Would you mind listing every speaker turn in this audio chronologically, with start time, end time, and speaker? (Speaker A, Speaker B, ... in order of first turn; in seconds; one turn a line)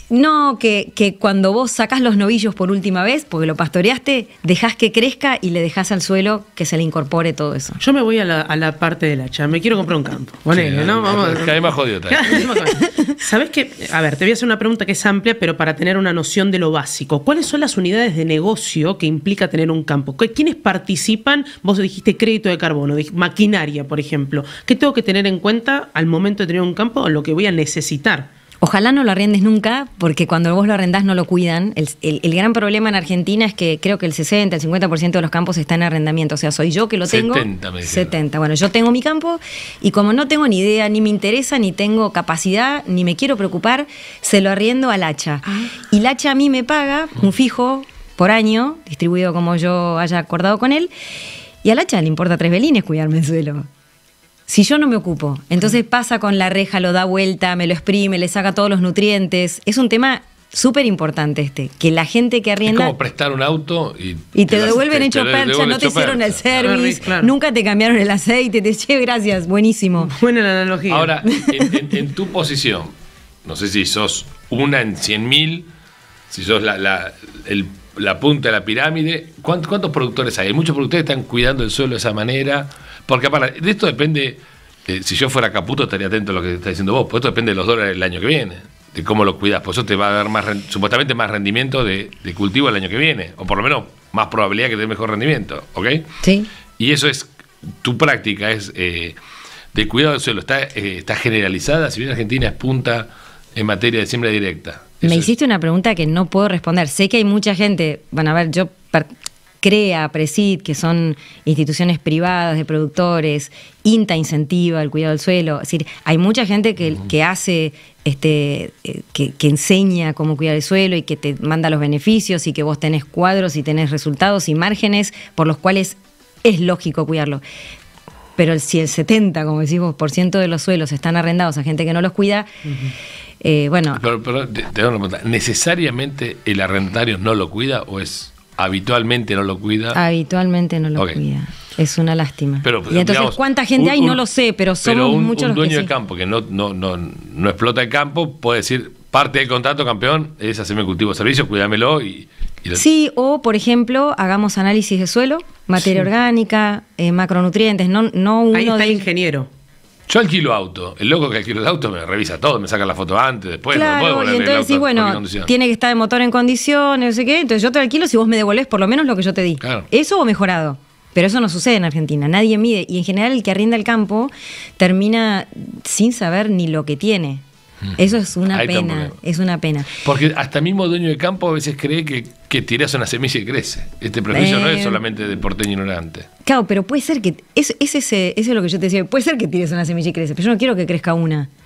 Speaker A: 0.1-7.8
Speaker B: 7.8-28.3
Speaker C: 10.5-12.5
Speaker A: 28.6-50.9
Speaker C: 37.1-38.1
Speaker A: 51.6-53.7
Speaker A: 54.5-62.9
Speaker C: 62.6-67.1
Speaker A: 64.3-70.1
Speaker B: 66.6-67.3
Speaker B: 70.0-71.1
Speaker C: 70.9-72.9
Speaker A: 71.3-71.7
Speaker C: 73.4-75.7
Speaker C: 76.3-96.1
Speaker A: 96.2-96.5
Speaker C: 96.8-99.2
Speaker C: 99.7-105.3
Speaker A: 105.0-109.1
Speaker A: 109.6-127.4
Speaker A: 128.4-132.5
Speaker A: 133.4-134.0
Speaker C: 133.9-140.0
Speaker A: 139.9-145.9
Speaker C: 142.6-144.2
Speaker C: 144.8-152.8
Speaker A: 152.8-159.1
Speaker B: 158.5-159.5
Speaker C: 160.1-165.5
Speaker A: 163.7-177.4
Speaker C: 169.6-169.9
Speaker A: 178.0-179.9
Speaker C: 178.5-179.1
Speaker C: 180.0-186.3
Speaker A: 184.3-185.0
Speaker A: 186.4-191.5